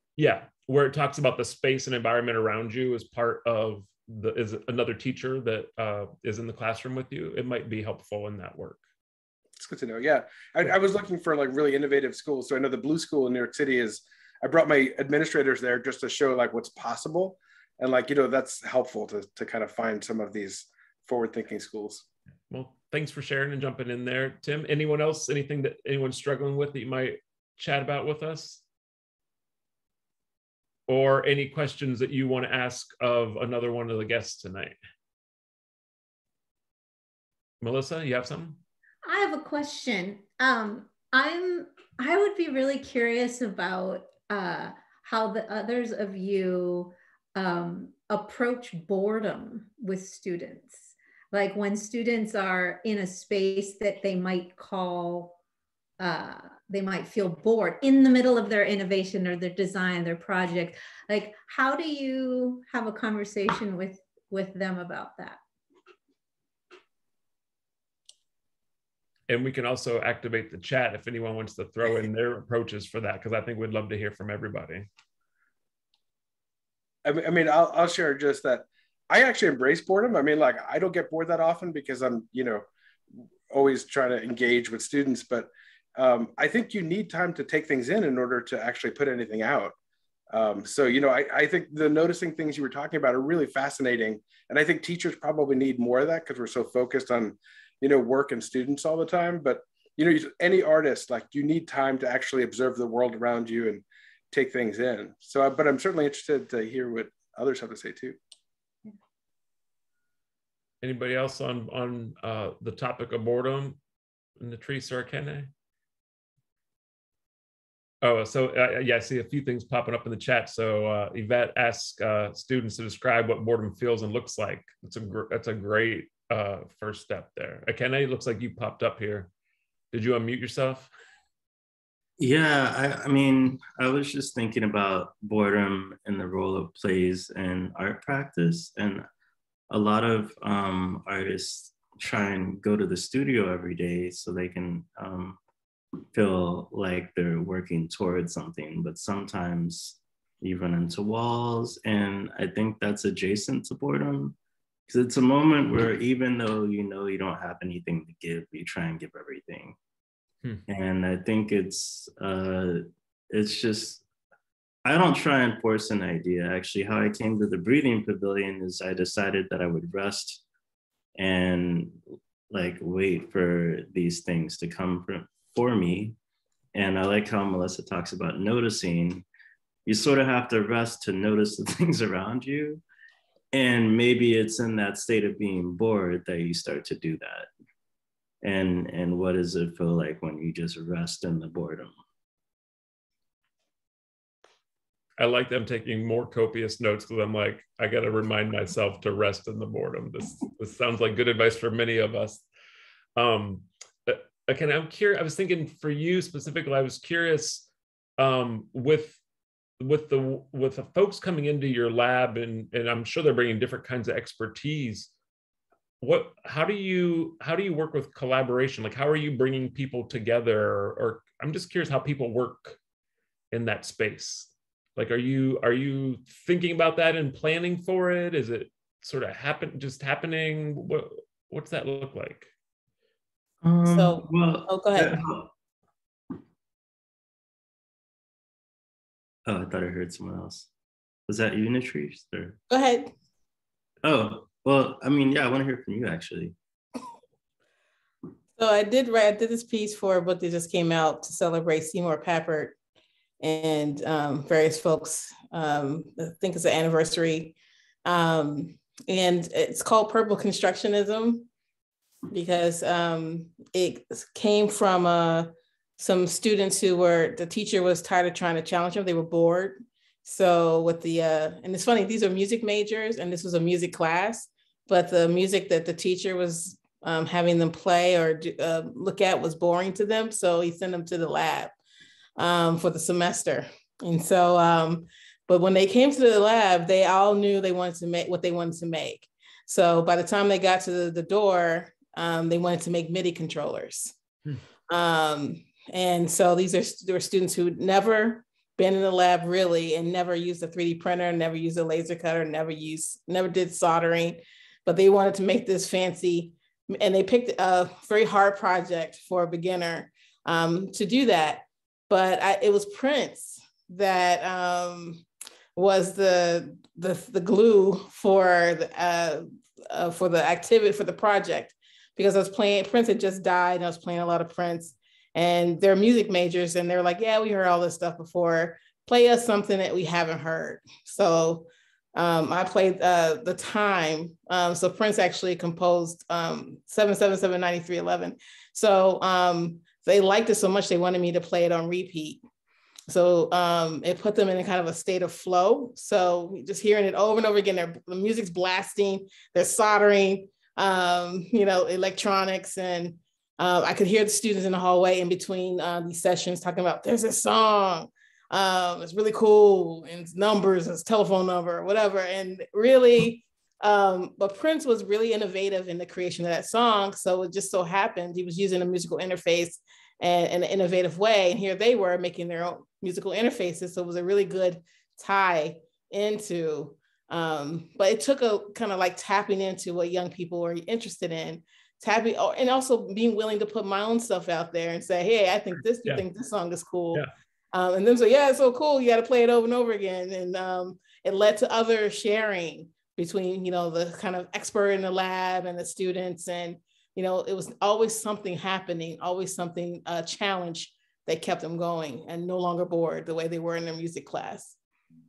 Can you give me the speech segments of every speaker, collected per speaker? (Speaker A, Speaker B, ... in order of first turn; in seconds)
Speaker A: 0.2-8.8, 22.5-28.6, 30.9-34.8, 37.6-38.6, 69.3-74.9, 110.8-113.8, 114.4-115.5, 118.0-129.3, 129.9-130.9, 195.2-202.4, 203.2-207.7, 208.2-209.2, 209.8-215.1, 216.0-222.8, 223.5-232.5
Speaker B: 9.6-22.0, 77.0-82.6, 83.5-89.7, 90.3-108.2
Speaker C: 39.1-55.4, 56.0-65.4
Speaker D: 132.2-139.1, 139.7-145.4, 146.1-154.4, 154.9-159.8, 160.7-164.0, 164.8-170.4, 171.2-172.0, 172.5-176.2, 176.7-179.2, 179.9-182.8, 183.5-187.5, 188.4-191.9, 233.6-235.5, 239.4-240.7, 241.3-242.6, 244.0-246.6
Speaker E: 233.9-235.2, 242.7-243.1, 248.6-252.7, 253.4-261.4, 262.3-281.7, 282.4-294.1, 294.9-315.2, 315.8-342.4, 343.1-404.8